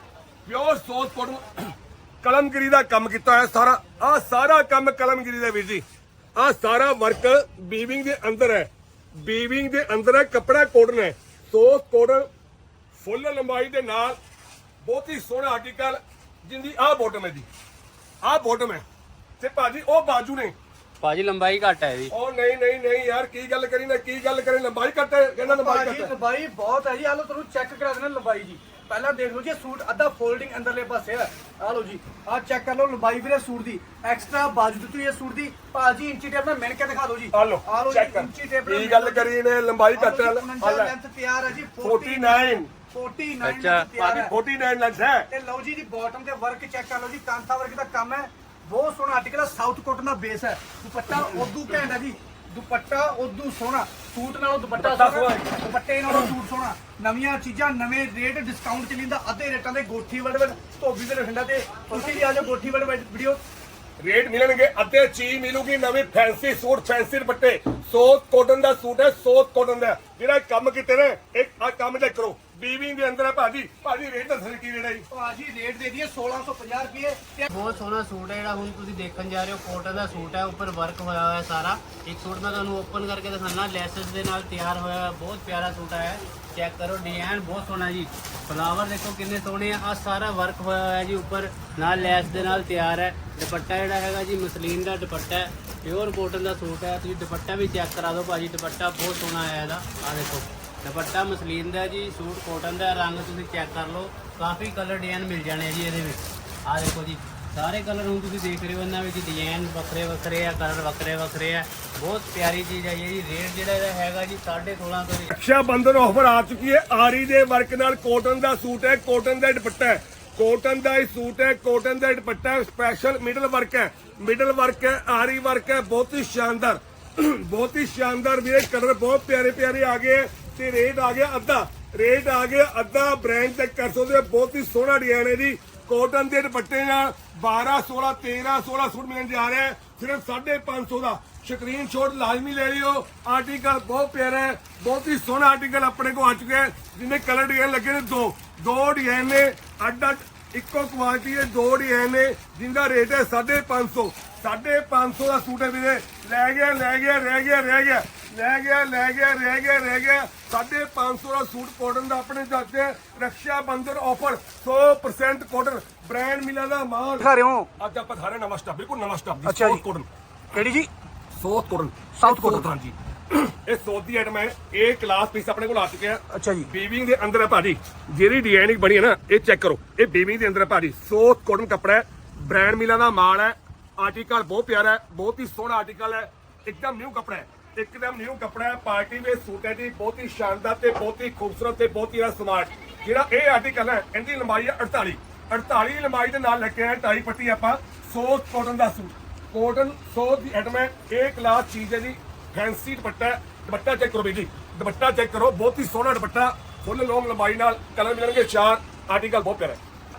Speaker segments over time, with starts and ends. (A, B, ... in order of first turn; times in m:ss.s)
0:00.5-0:05.8 A
0:06.4-0:12.3 A
0:13.0-0:14.2 A
0:14.8-0:17.5 A
0:18.2-0:18.8 A
0:19.4-0:20.6 A
0:21.0-0:22.1 B
0:22.1-0:26.1 A
0:25.4-0:39.4 C
0:37.3-0:40.9 A
0:39.9-0:44.4 C
0:41.8-0:42.7 A
0:43.4-0:43.9 B
0:44.0-0:45.3 A
0:45.3-1:03.4 C
0:54.8-0:55.5 A
1:04.0-1:15.1 A
1:15.1-1:17.5 C
1:17.5-1:55.3 B
1:55.3-2:50.1 A
2:47.2-2:47.7 C
2:49.4-2:49.8 C
2:50.5-2:50.9 C
2:51.3-3:29.8 A
2:52.2-2:52.7 C
2:56.3-2:56.7 C